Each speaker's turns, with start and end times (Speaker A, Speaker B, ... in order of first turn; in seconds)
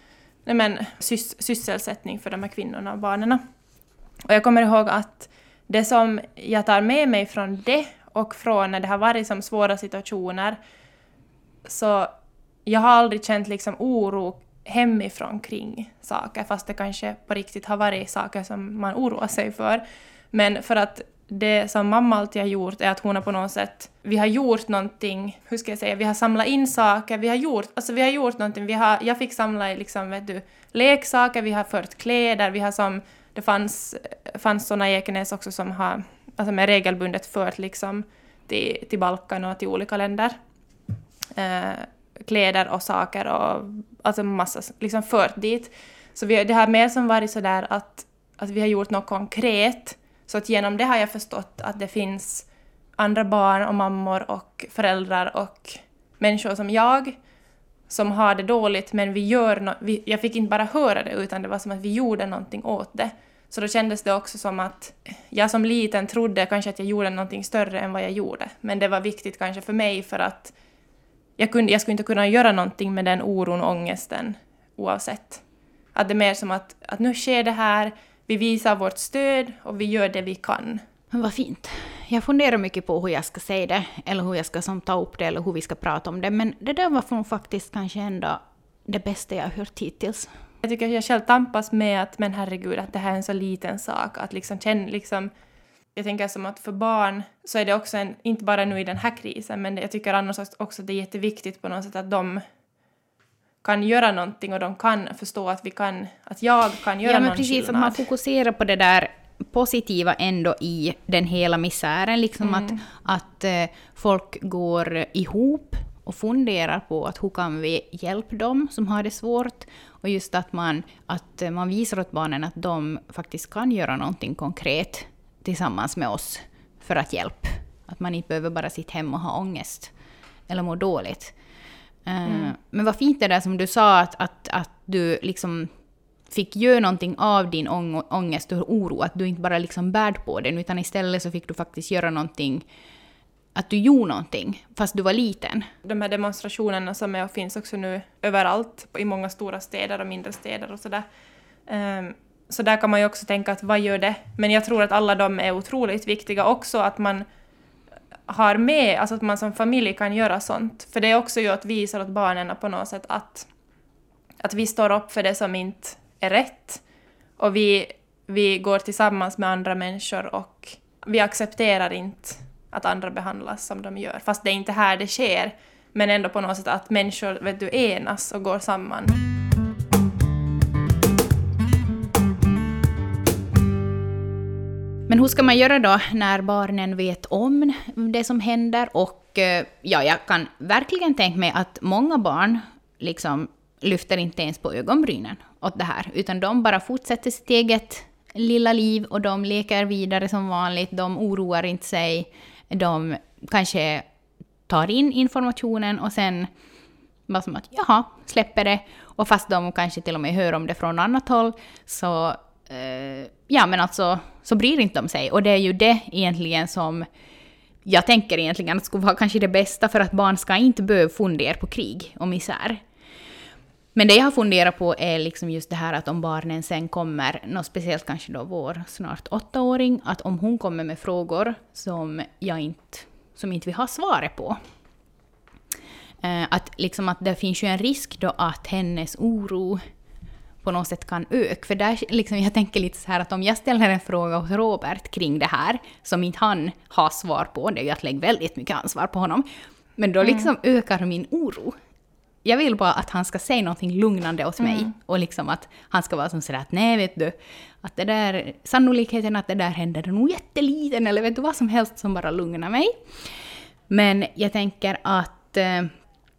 Speaker A: 0.5-3.4, 4.3-10.6, 11.7-12.1, 12.7-40.4, 41.4-52.5, 53.0-57.1, 57.9-70.5, 71.4-75.4, 76.0-80.8, 90.6-95.3, 96.0-102.4, 103.6-108.0, 112.4-112.8, 132.3-132.5, 145.8-151.1, 151.7-157.2, 158.3-163.5, 164.4-166.8, 167.4-179.2, 250.2-250.5, 254.6-254.9
Speaker B: 81.1-90.3, 107.0-129.9, 130.5-131.3, 132.1-135.7, 136.3-142.7, 143.6-145.7, 185.1-204.1, 204.7-206.5, 207.3-217.1, 217.9-222.8, 223.9-234.6, 236.2-239.8, 240.6-249.5, 250.0-251.8, 252.4-262.9, 263.9-265.9